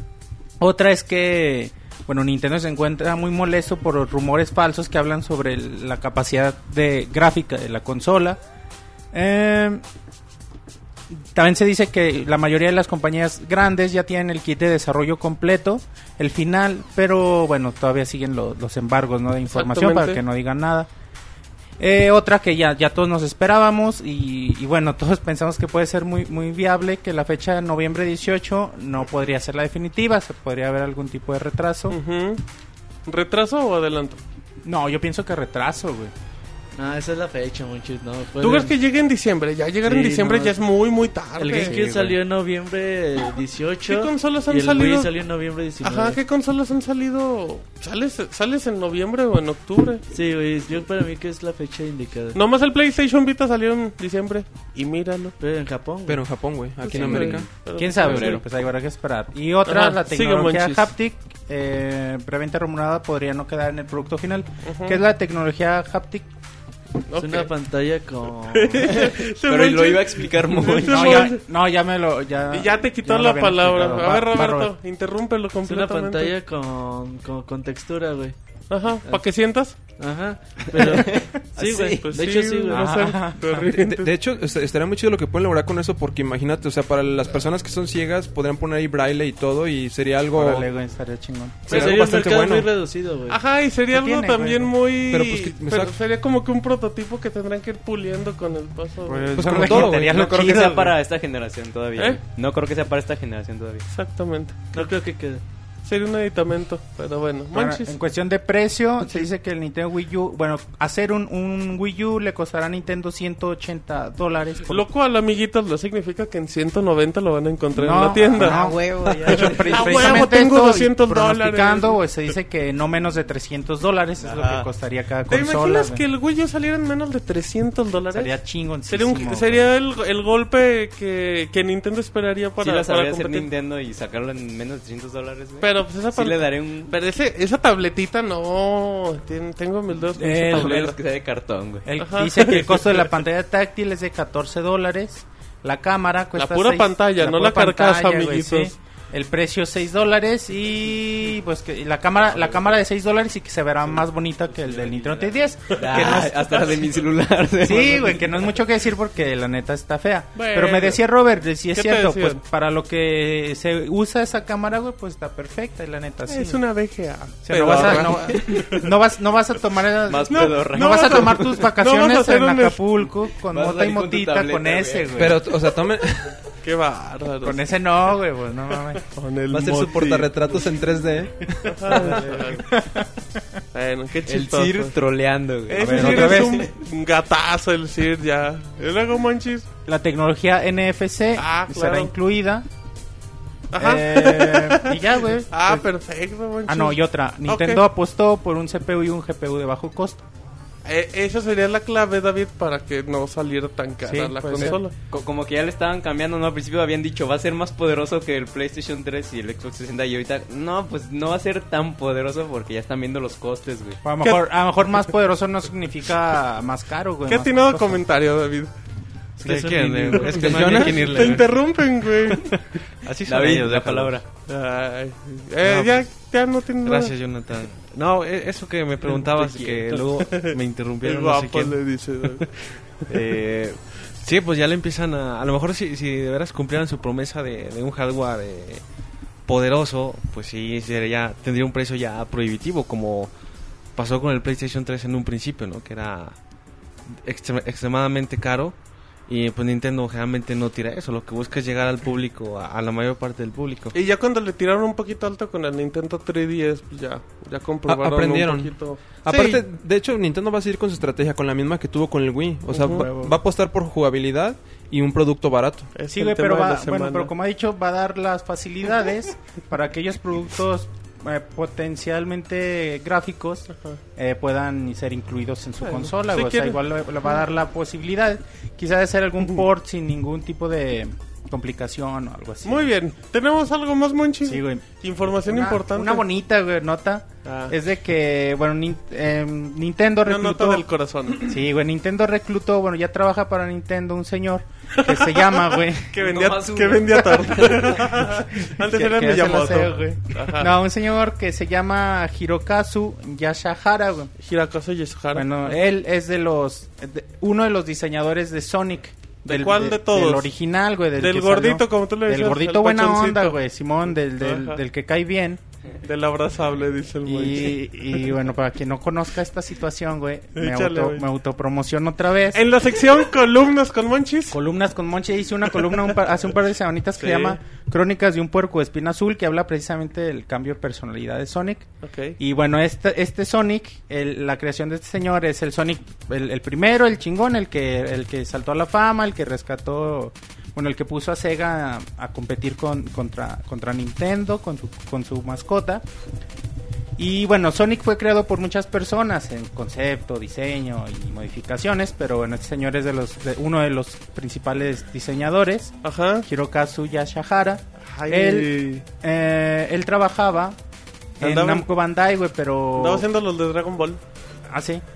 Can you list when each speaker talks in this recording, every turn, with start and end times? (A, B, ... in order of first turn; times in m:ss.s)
0:00.6-0:08.4 A
0:09.1-0:09.8 A
0:11.1-0:20.9 A
0:19.5-0:20.2 B
0:21.8-0:32.0 A
0:31.9-0:32.4 B
0:33.1-0:34.2 B
0:34.6-0:36.1 A
0:36.8-0:38.8 C
0:38.4-0:41.8 B
0:39.8-0:40.6 C
0:41.4-0:46.2 C
0:41.6-0:42.2 A
0:43.9-0:45.1 B
0:45.8-0:50.0 B
0:50.1-0:52.4 C
0:52.4-0:55.3 B
0:55.4-0:56.3 C
0:56.1-0:57.5 D
0:56.9-0:58.4 B
0:57.8-1:06.3 A
0:58.0-0:58.4 E
0:59.6-1:00.9 B
1:04.6-1:05.0 B
1:07.1-1:07.5 B
1:07.2-1:09.0 C
1:08.5-1:11.4 B
1:08.9-1:11.3 E
1:10.9-1:14.7 A
1:12.5-1:16.3 B
1:15.6-1:18.4 C
1:18.7-1:19.8 B
1:19.9-1:23.0 C
1:20.8-1:22.0 E
1:21.8-1:24.1 B
1:22.7-1:23.6 A
1:23.6-1:30.7 D
1:30.3-1:31.7 A
1:31.7-1:32.7 D
1:31.7-1:33.4 C
1:33.3-1:39.4 B
1:33.9-1:34.7 A
1:35.1-1:35.9 D
1:39.1-1:40.9 A
1:39.3-1:40.6 D
1:39.4-1:43.8 E
1:40.1-1:40.7 C
1:43.9-1:44.6 B
1:44.7-1:45.4 C
1:45.8-1:48.0 B
1:47.5-1:54.9 A
1:54.7-1:58.7 B
1:57.8-2:06.0 A
1:58.4-2:00.2 E
1:59.3-2:02.0 B
2:04.2-2:04.7 E
2:05.3-2:08.3 B
2:08.1-2:09.7 A
2:08.9-2:13.5 B
2:12.6-2:16.9 E
2:15.6-2:21.0 B
2:20.2-2:20.9 A
2:20.4-2:21.9 E
2:21.9-2:36.6 A
2:22.0-2:22.9 B
2:26.4-2:28.7 B
2:35.7-2:36.9 B
2:35.8-2:38.5 E
2:37.6-2:46.6 A
2:40.3-2:41.0 B
2:41.7-2:42.4 B
2:46.3-2:48.9 B
2:47.4-2:55.4 A
2:47.7-2:48.5 E
2:50.0-2:51.7 E
2:50.3-2:53.1 B
2:53.5-2:55.3 E
2:55.2-2:56.4 D
2:56.6-2:57.6 B
2:57.4-2:59.0 A
2:59.0-3:00.3 B
2:59.5-3:02.1 D
3:01.6-3:02.8 B
3:01.9-3:02.3 E
3:02.7-3:03.0 A
3:03.7-3:05.0 B
3:04.3-3:06.6 E
3:05.7-3:09.6 B
3:05.8-3:06.7 A
3:09.9-3:12.7 A
3:11.4-3:12.1 B
3:13.7-3:17.8 B
3:13.8-3:15.9 A
3:16.7-3:20.2 A
3:20.9-3:24.9 B
3:24.0-3:24.8 A
3:24.6-3:34.0 E
3:34.0-3:38.0 A
3:37.3-3:38.7 B
3:39.4-3:42.3 F
3:39.4-3:41.2 C
3:40.1-3:42.6 B
3:40.3-3:41.3 D
3:43.0-3:44.2 F
3:43.2-3:44.2 E
3:44.5-3:47.1 B
3:45.6-3:46.1 F
3:46.8-3:58.8 F
3:49.2-3:49.9 E
3:50.2-3:52.5 B
3:59.4-4:03.3 F
4:03.9-4:06.4 F
4:07.1-4:13.9 F
4:13.9-4:19.2 B
4:17.9-4:25.9 D
4:19.3-4:19.6 A
4:22.7-4:23.1 B
4:22.9-4:23.4 A
4:25.9-4:27.3 B
4:26.1-4:42.9 A
4:33.7-4:34.0 B
4:35.8-4:36.8 B
4:42.6-4:46.2 B
4:44.4-4:44.9 A
4:45.4-4:50.8 A
4:47.4-4:47.8 B
4:50.3-4:51.5 B
4:51.4-4:56.2 A
4:55.0-4:55.4 B
4:56.1-5:00.7 B
4:56.2-4:57.9 E
4:58.2-5:04.3 A
5:04.4-5:05.5 B
5:05.3-5:15.6 A
5:09.5-5:10.5 B
5:11.2-5:13.6 B
5:14.4-5:14.8 B
5:16.0-5:17.8 B
5:17.2-5:22.6 A
5:20.6-5:21.2 B
5:22.5-5:24.6 B
5:24.5-5:46.0 A
5:27.2-5:27.6 B
5:32.0-5:32.4 B
5:47.2-6:00.8 A
5:56.0-5:56.4 B
5:58.1-5:59.0 B
6:01.4-6:01.9 B
6:01.4-6:03.3 A
6:03.0-6:04.2 B
6:04.7-6:05.0 A